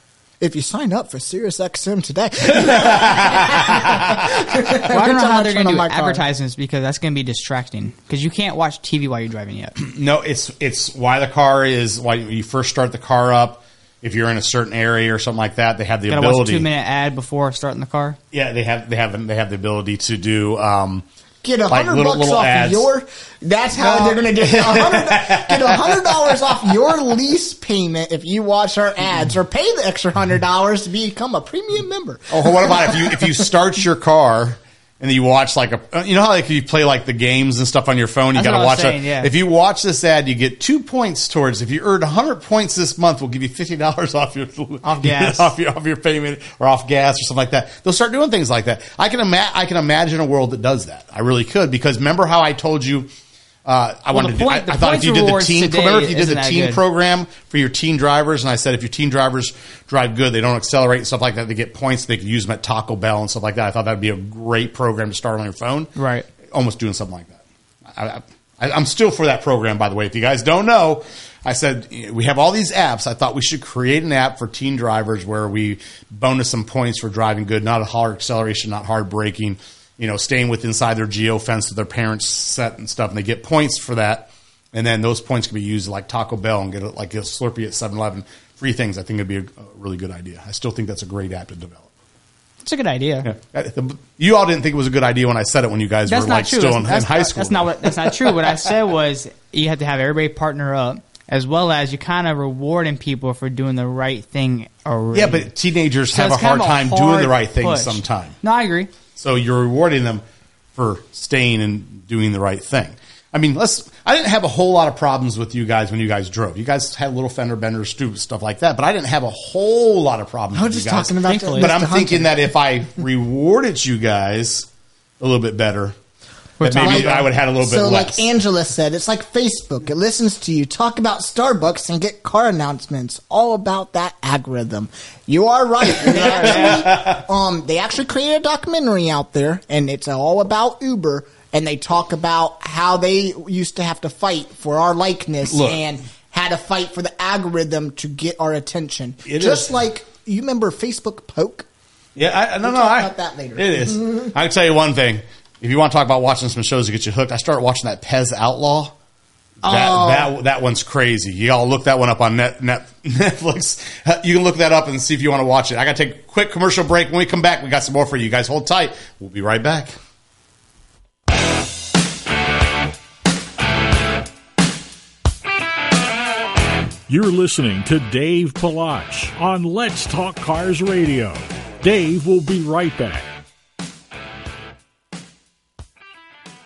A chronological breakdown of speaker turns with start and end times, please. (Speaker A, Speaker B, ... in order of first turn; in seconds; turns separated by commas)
Speaker A: 0.4-6.2, Speaker B: 2.5-4.3, Speaker C: 4.8-9.8, Speaker B: 9.8-16.7, Speaker C: 16.1-18.2, Speaker B: 18.3-21.0, Speaker A: 21.4-33.5, Speaker B: 21.7-22.9, Speaker B: 23.8-26.5, Speaker B: 32.3-53.1, Speaker C: 38.4-39.3, Speaker C: 44.8-45.5, Speaker B: 53.7-65.9, Speaker C: 54.1-56.8, Speaker C: 66.0-66.3, Speaker B: 66.4-91.9, Speaker C: 92.6-93.3, Speaker B: 93.2-98.6, Speaker C: 96.1-105.5, Speaker B: 105.1-108.4, Speaker C: 106.1-108.9, Speaker B: 109.2-110.2, Speaker B: 110.8-124.7, Speaker A: 120.5-122.4, Speaker C: 121.2-121.7, Speaker B: 125.2-126.0, Speaker C: 126.6-127.3, Speaker B: 126.6-128.3, Speaker A: 126.8-151.7, Speaker B: 135.9-137.2, Speaker C: 136.2-136.8, Speaker B: 145.5-145.8, Speaker B: 149.3-149.7, Speaker B: 152.2-158.9, Speaker A: 152.6-154.3, Speaker B: 159.6-170.0, Speaker A: 159.6-160.3, Speaker D: 177.1-183.3